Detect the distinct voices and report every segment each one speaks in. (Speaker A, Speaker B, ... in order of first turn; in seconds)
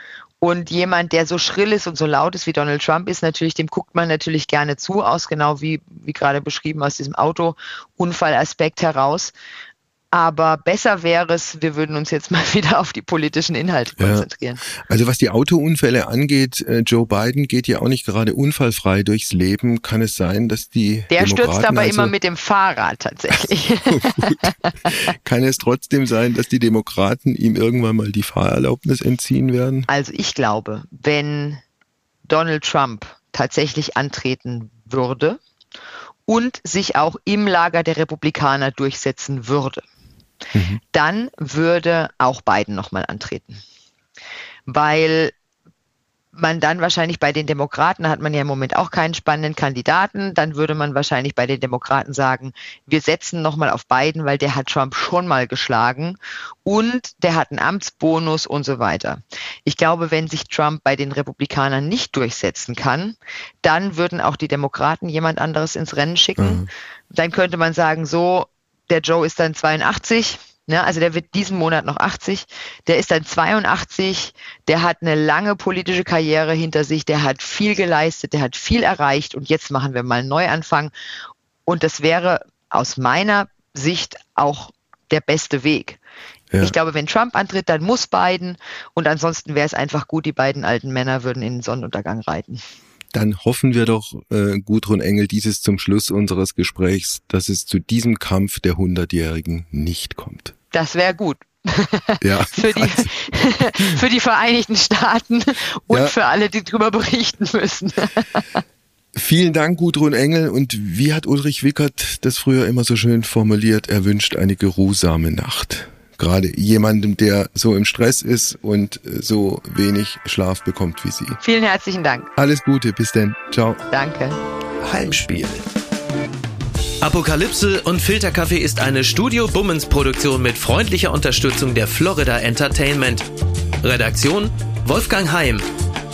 Speaker A: 0.4-9.3, 10.1-14.6, 21.1-24.9, 29.9-31.6, 32.3-35.4, 36.3-39.8, 40.9-43.6, 44.7-45.3, 46.3-80.9, 81.7-86.0, 86.6-92.6, 100.7-108.5, 121.4-122.3, 123.9-124.4
Speaker B: 14.0-22.1, 23.9-29.9, 40.5-40.8, 66.4-66.7, 93.1-100.5, 102.2-103.1, 109.1-121.4, 122.3-123.8
Speaker C: 124.8-125.6, 127.0-133.2, 133.8-135.7